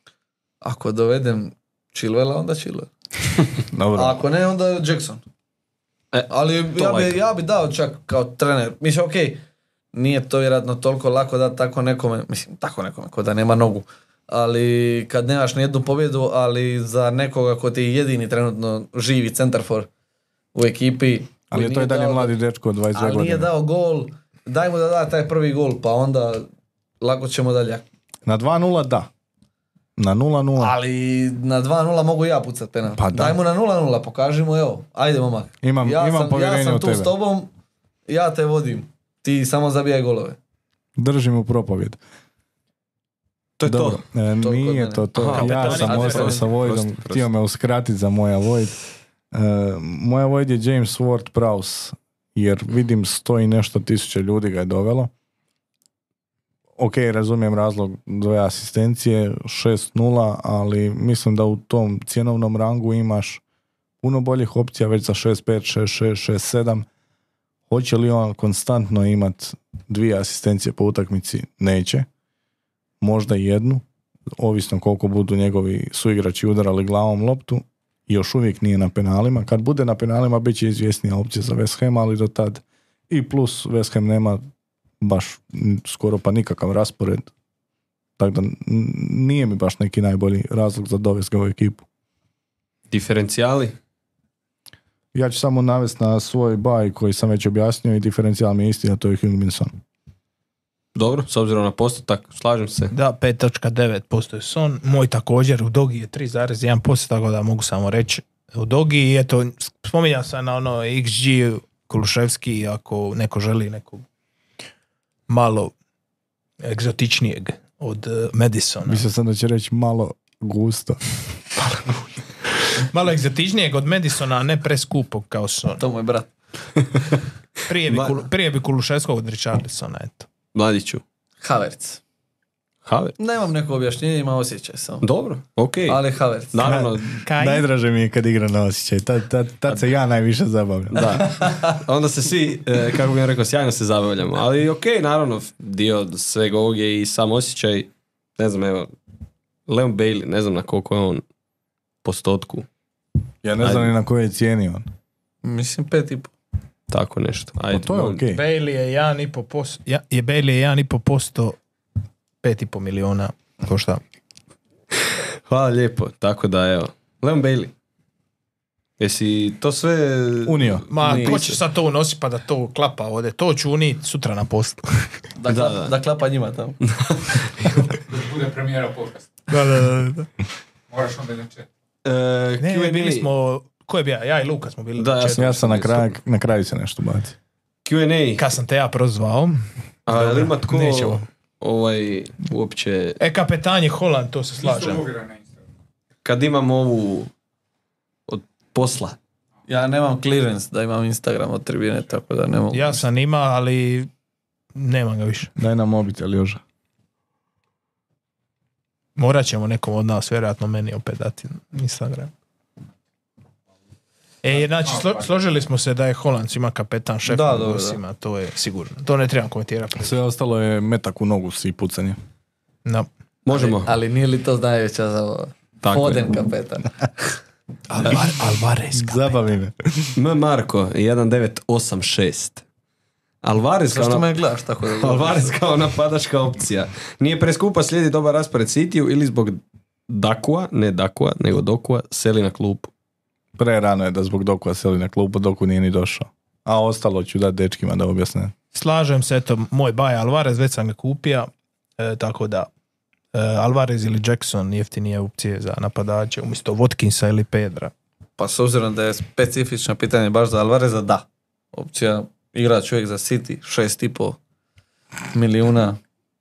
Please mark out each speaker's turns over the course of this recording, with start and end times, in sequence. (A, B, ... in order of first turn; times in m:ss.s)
0:00.6-0:02.9 A
0:03.7-0:04.2 B
0:04.0-0:05.2 A
0:06.1-0:07.2 C
0:06.3-0:09.4 A
0:09.9-0:19.9 A
0:20.5-0:22.3 A
0:21.5-0:23.5 B
0:22.9-0:26.5 A
0:27.0-0:27.8 A
0:28.2-0:29.1 B
0:30.0-0:30.8 B
0:30.6-0:37.5 A
0:33.0-0:33.4 B
0:35.6-0:37.1 B
0:38.1-0:40.4 A
0:41.0-0:42.0 B
0:43.6-0:44.0 C
0:43.6-0:48.8 B
0:44.4-0:46.3 A
0:45.1-0:47.3 C
0:45.3-0:46.4 D
0:49.3-0:55.1 B
0:56.8-1:03.4 B
1:04.0-1:06.8 B
1:07.7-1:12.1 B
1:13.0-1:13.8 B
1:14.4-1:24.4 B
1:25.0-1:27.3 B
1:28.2-1:31.8 B
1:32.9-1:33.7 C
1:35.1-1:39.7 B
1:40.9-1:42.9 C
1:42.9-1:54.0 D
1:55.3-1:55.7 D
1:56.6-1:59.0 D
1:58.8-2:01.0 B
2:01.7-2:01.9 D
2:02.8-2:05.8 D
2:05.8-2:06.3 A
2:07.7-2:10.3 D
2:07.9-2:08.2 C
2:10.5-2:11.0 C
2:11.4-2:12.0 A
2:12.8-2:13.2 C
2:13.2-2:15.0 A
2:15.0-2:17.2 C
2:15.9-2:16.6 A
2:16.6-2:21.2 B
2:17.2-2:17.6 D
2:20.9-2:21.8 A
2:20.9-2:28.9 C
2:29.7-2:31.2 C
2:32.0-2:32.7 C
2:33.4-2:34.8 B
2:33.6-2:33.9 C
2:35.4-2:36.3 A
2:36.9-2:38.2 C
2:37.7-2:38.4 B
2:38.3-2:41.6 D
2:42.4-2:44.0 D
2:45.5-2:47.7 C
2:49.0-2:51.6 C
2:50.4-2:50.8 B
2:50.9-2:54.9 D
2:51.0-2:51.4 A
2:55.4-2:56.8 A
2:55.5-2:55.9 C
2:56.8-2:57.5 C
2:57.6-2:59.3 E
2:59.5-3:00.3 D
3:00.9-3:01.7 E
3:02.0-3:03.3 C
3:02.6-3:05.8 D
3:05.0-3:06.1 C
3:05.3-3:07.3 B
3:07.8-3:08.5 C
3:08.4-3:11.2 D
3:10.1-3:13.2 C
3:13.2-3:15.0 D
3:14.6-3:15.5 E
3:16.2-3:17.3 C
3:18.3-3:19.2 C
3:19.7-3:23.0 A
3:22.7-3:24.1 D
3:24.7-3:25.5 D
3:25.6-3:26.6 B
3:29.2-3:32.3 D
3:34.4-3:40.2 D
3:37.2-3:38.0 A
3:40.0-3:42.2 B
3:43.4-3:43.9 C
3:43.5-3:47.3 A
3:45.8-3:46.3 C
3:47.9-3:49.6 D
3:48.9-3:50.1 B
3:50.2-3:52.6 C
3:53.4-4:02.9 C
3:53.9-3:55.6 A
4:03.6-4:08.5 B
4:08.7-4:12.7 D
4:13.3-4:17.9 D
4:18.4-4:24.4 A
4:25.3-4:26.0 A